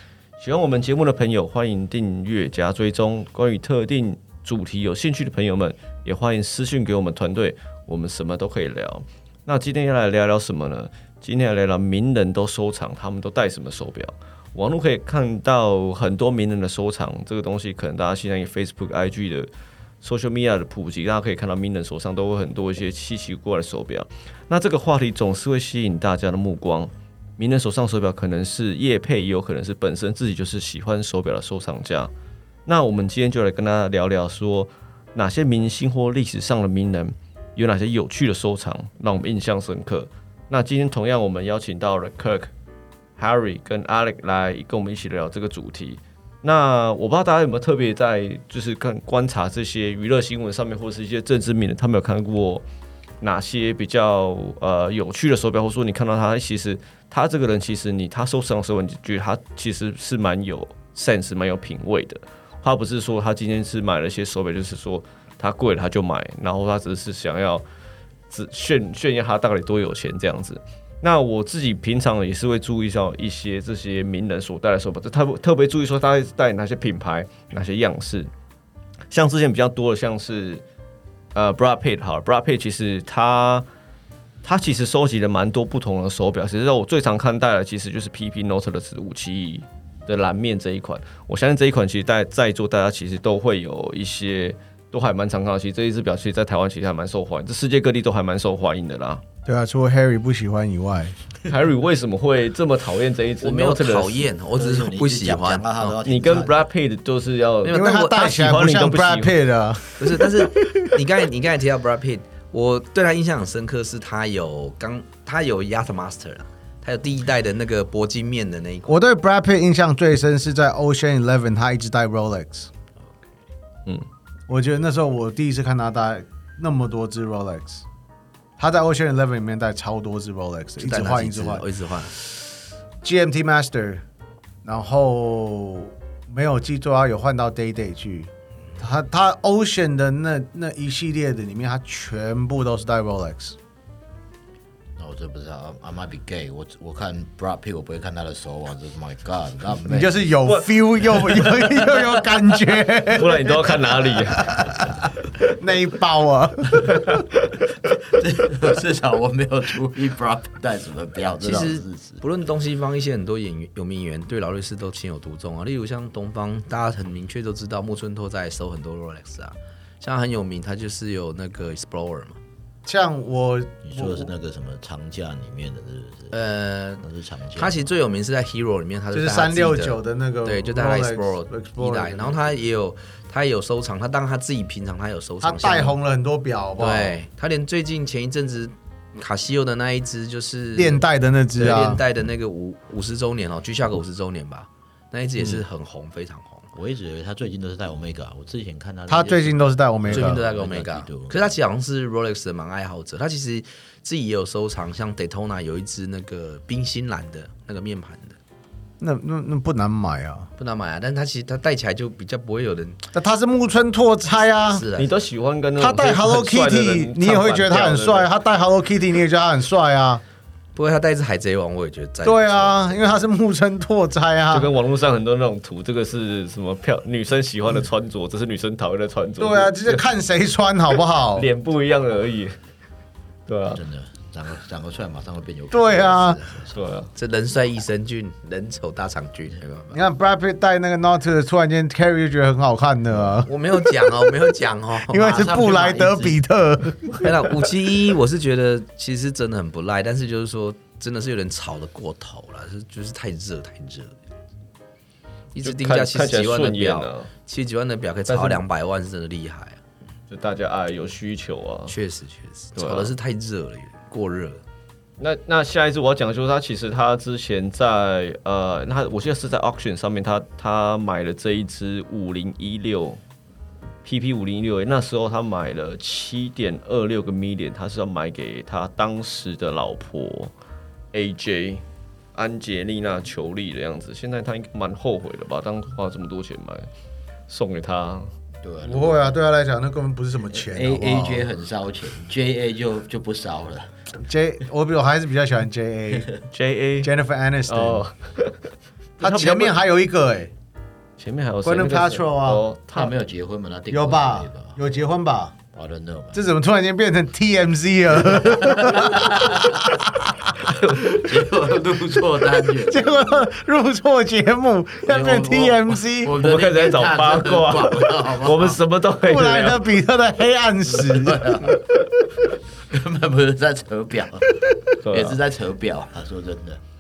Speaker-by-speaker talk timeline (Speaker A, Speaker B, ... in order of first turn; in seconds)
Speaker A: 0.4-19.5, 20.0-32.1, 32.7-42.5, 43.2-52.6, 53.2-67.6, 68.3-78.3, 79.1-80.6, 81.3-83.7, 84.4-99.2, 101.5-104.2, 106.0-109.3, 150.5-151.8, 153.1-154.7, 156.9-157.5, 215.0-218.3, 224.5-230.0, 231.3-232.6, 233.5-233.8, 236.7-237.1, 255.6-257.3, 258.3-258.6, 260.3-261.9, 262.8-263.1, 265.2-273.2, 274.0-280.5, 281.1-281.8, 282.4-286.9, 287.5-288.3, 296.5-297.1, 297.7-299.7, 301.2-303.1, 310.7-311.0, 316.4-319.9, 325.0-325.4
Speaker B: 99.5-101.2, 107.7-110.8, 118.9-122.7, 124.5-127.8, 128.6-131.7, 133.0-134.0, 134.6-143.6, 149.9-157.1, 172.8-174.3, 179.1-182.6, 185.4-187.2, 190.8-192.0, 199.1-200.4, 209.0-210.5, 213.1-214.9, 215.8-220.2, 222.2-224.7, 229.4-231.5, 235.7-236.4, 239.9-247.5, 288.8-291.5, 294.2-296.3, 297.0-298.1, 299.2-300.5, 301.6-302.6, 303.9-305.6, 306.3-310.7, 312.8-316.4, 319.2-321.8
Speaker C: 103.4-106.0, 107.6-108.3, 110.0-119.0, 130.8-132.1, 161.4-172.4, 176.3-177.1, 177.6-185.9, 186.8-191.0, 191.6-196.7, 200.1-208.4, 210.6-213.1, 214.3-215.1, 220.8-222.8, 237.2-240.0, 243.5-245.3, 247.2-254.2, 255.5-259.8, 261.9-264.6
Speaker D: 104.6-106.6, 145.0-150.3, 157.8-162.2, 173.8-176.3, 177.0-177.8, 196.8-201.4, 233.7-236.7, 245.1-246.4, 288.6-289.4, 290.5-293.9, 302.9-304.8, 305.7-306.4, 308.2-309.9, 310.6-313.4, 315.1-318.8, 320.9-321.9, 322.9-326.8